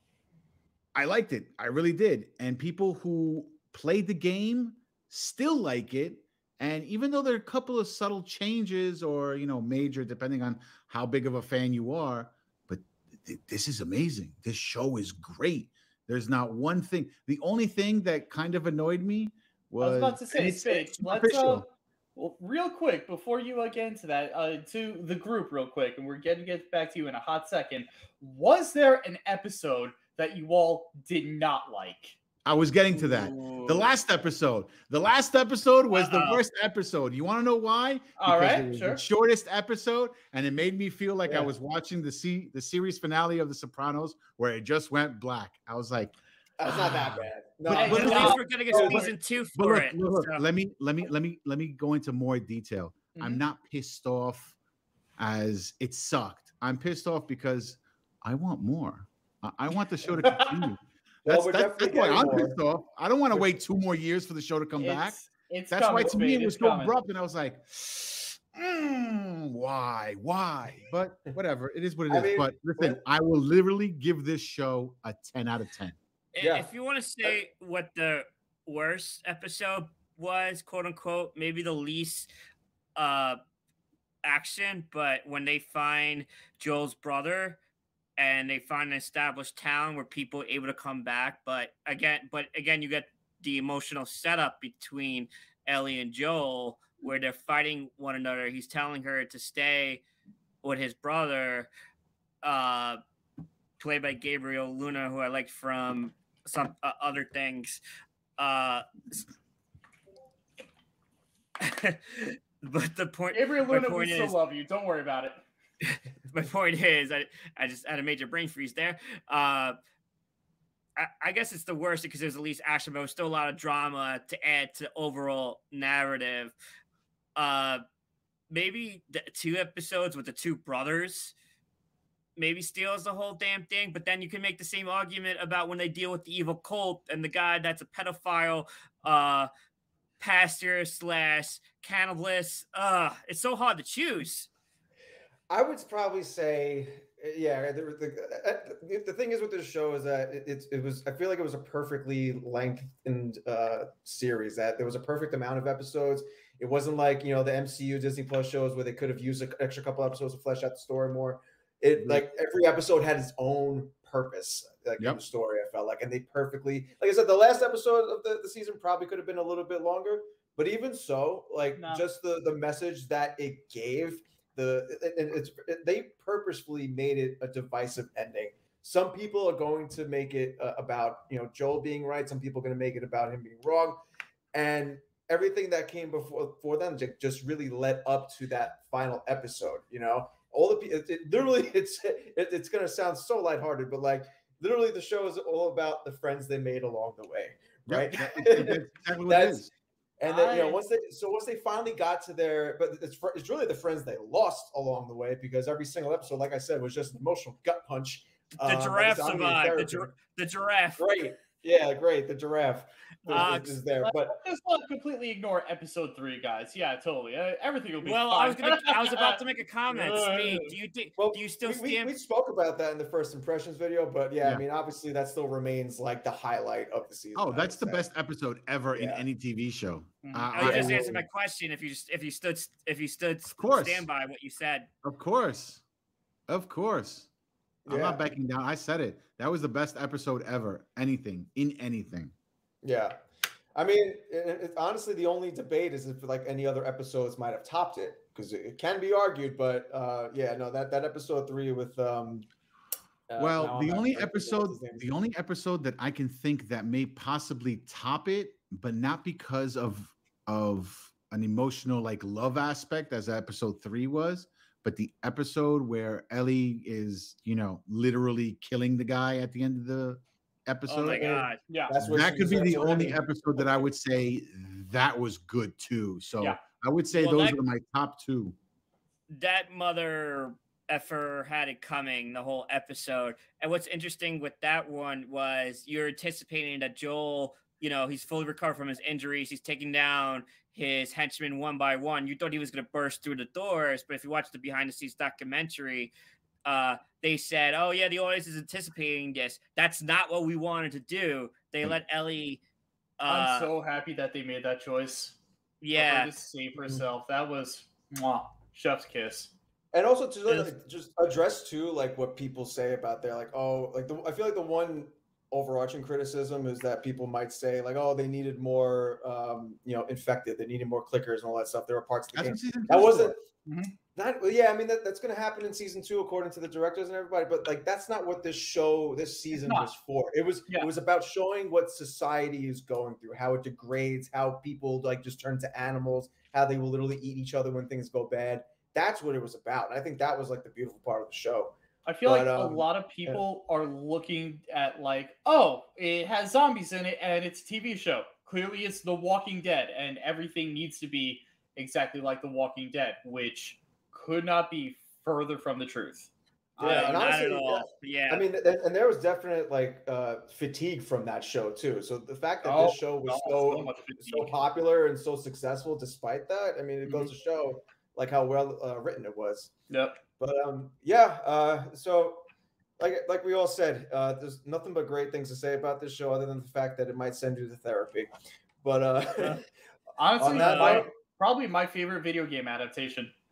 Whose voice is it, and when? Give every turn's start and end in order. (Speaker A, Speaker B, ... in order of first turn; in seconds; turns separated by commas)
Speaker A: 0.9-21.7, Speaker B: 19.8-32.2, Speaker A: 32.4-46.1, Speaker C: 32.9-33.9, Speaker C: 35.9-36.4, Speaker B: 38.2-39.0, Speaker D: 46.6-49.1, Speaker A: 46.6-48.4, Speaker B: 47.7-49.1, Speaker C: 47.8-50.4, Speaker A: 49.5-54.5, Speaker B: 53.1-53.4, Speaker A: 55.2-65.2, Speaker D: 61.2-62.6, Speaker B: 64.8-67.0, Speaker A: 65.7-76.0, Speaker D: 72.1-73.0, Speaker C: 76.3-82.3, Speaker D: 76.4-76.7, Speaker C: 83.0-83.4, Speaker C: 84.2-87.6, Speaker C: 88.2-100.0, Speaker C: 100.6-101.7, Speaker C: 102.4-103.0, Speaker C: 103.8-107.8, Speaker C: 108.4-109.2, Speaker C: 111.6-114.4, Speaker B: 113.3-115.4, Speaker C: 115.8-119.8, Speaker C: 121.0-126.5, Speaker C: 127.3-127.8, Speaker C: 128.5-131.3, Speaker C: 132.4-139.5, Speaker C: 140.2-144.5, Speaker D: 145.5-184.0, Speaker A: 162.0-162.2, Speaker B: 171.7-172.0, Speaker D: 184.5-199.6, Speaker A: 197.9-199.7, Speaker D: 200.2-210.2, Speaker B: 200.2-200.8, Speaker C: 208.6-211.1, Speaker D: 211.0-214.3, Speaker B: 213.3-220.7, Speaker C: 213.3-213.8, Speaker C: 218.0-222.1, Speaker D: 221.2-228.1, Speaker A: 227.3-231.0, Speaker D: 228.9-229.2, Speaker B: 230.2-230.7, Speaker C: 230.5-234.9, Speaker D: 230.6-231.3, Speaker A: 233.5-234.1, Speaker A: 235.0-235.8, Speaker A: 236.5-237.3, Speaker D: 237.8-238.2, Speaker A: 237.9-242.3, Speaker D: 242.8-243.2, Speaker D: 243.7-252.5, Speaker D: 253.3-255.1, Speaker A: 253.4-271.3, Speaker C: 270.9-271.6, Speaker D: 271.0-273.2, Speaker B: 271.7-271.9, Speaker A: 272.0-278.5, Speaker C: 277.1-277.6, Speaker C: 279.3-296.1, Speaker C: 296.6-302.6, Speaker C: 303.2-303.7, Speaker B: 303.2-305.4, Speaker C: 305.8-306.3, Speaker B: 305.9-309.5, Speaker D: 309.9-323.4, Speaker A: 322.3-323.3, Speaker B: 323.6-323.9, Speaker D: 324.1-343.4, Speaker B: 329.5-329.9, Speaker B: 342.0-357.2, Speaker D: 356.8-369.7, Speaker C: 356.8-358.4, Speaker B: 362.6-364.5, Speaker B: 367.0-367.3, Speaker B: 369.9-370.2, Speaker D: 370.4-372.4, Speaker D: 373.0-378.3, Speaker D: 378.8-379.6, Speaker B: 380.2-383.3, Speaker D: 380.4-381.1, Speaker C: 380.5-381.1